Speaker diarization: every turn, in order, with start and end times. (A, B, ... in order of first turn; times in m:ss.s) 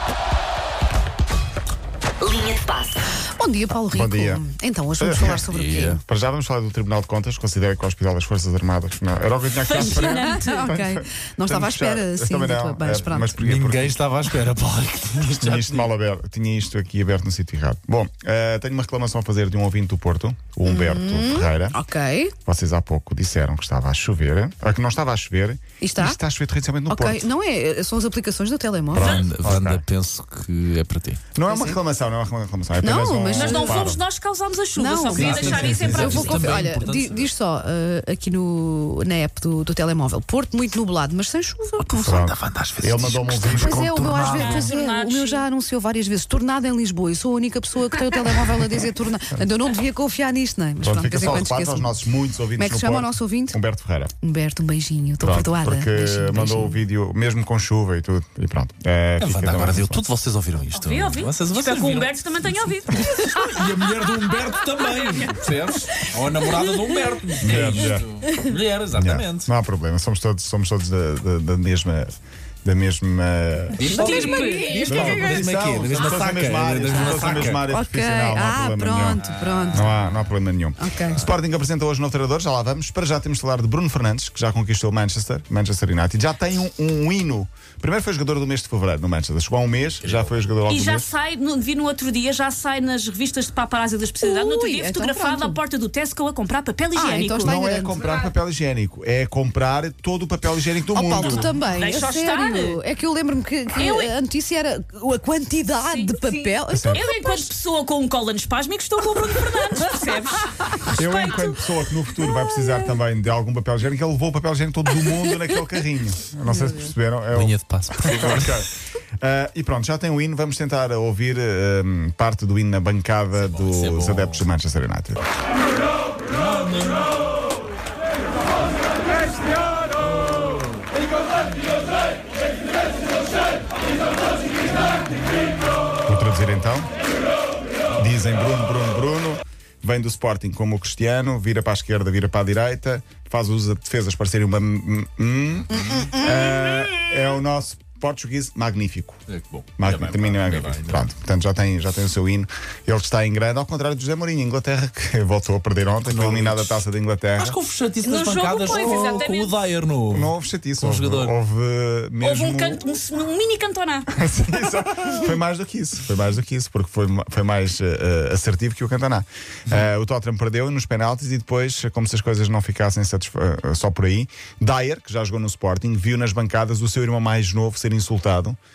0:02.2-0:06.0 A
0:03.9-0:04.4 B
0:05.0-0:05.5 B
0:05.5-0:06.0 C
0:06.0-0:14.1 B
0:09.7-0:10.7 D
0:09.7-0:13.4 A
0:13.4-0:15.9 C
0:15.4-0:21.8 B
0:20.6-0:22.3 A
0:22.4-0:27.3 B
0:25.8-0:26.2 A
0:26.9-0:29.2 A
0:28.9-0:31.2 C
0:29.0-0:29.8 B
0:31.3-0:34.0 B
0:31.5-0:31.8 A
0:32.8-0:33.9 A
0:33.3-0:36.7 D
0:34.8-0:42.2 A
0:35.1-0:37.3 C
0:35.2-0:36.2 B
0:41.8-0:44.6 C
0:42.0-0:43.8 B
0:43.5-0:51.9 A
0:44.3-0:45.4 D
0:50.8-0:54.1 B
0:52.6-0:53.6 A
0:54.2-0:56.8 A
0:55.2-1:00.0 B
0:59.2-1:09.5 C
1:00.7-1:03.2 D
1:04.9-1:05.3 D
1:06.8-1:07.6 D
1:07.4-1:08.1 B
1:08.9-1:13.9 B
1:13.8-1:17.6 C
1:13.9-1:15.0 D
1:13.9-1:15.4 A
1:14.8-1:31.1 B
1:17.7-1:19.9 A
1:19.2-1:20.2 C
1:20.8-1:21.2 A
1:30.0-1:30.5 C
1:30.7-1:37.6 D
1:34.2-1:35.6 A
1:36.9-1:38.0 A
1:37.4-1:41.5 B
1:40.9-1:47.5 A
1:41.2-1:42.8 D
1:43.8-1:44.1 D
1:45.8-1:51.7 D
1:46.7-1:47.0 B
1:50.9-1:58.7 B
1:56.4-1:56.9 A
1:57.3-1:58.6 C
1:59.2-2:05.3 B
2:03.4-2:04.4 C
2:06.3-2:07.4 C
2:10.1-2:10.6 C
2:16.1-2:16.9 B
2:18.0-2:29.2 B
2:25.9-2:26.2 C
2:29.3-2:31.1 C
2:29.8-2:37.6 B
2:36.1-2:36.8 C
2:37.4-2:41.3 C
2:38.0-2:39.5 D
2:40.1-2:42.8 B
2:42.2-2:44.1 D
2:44.1-2:58.6 B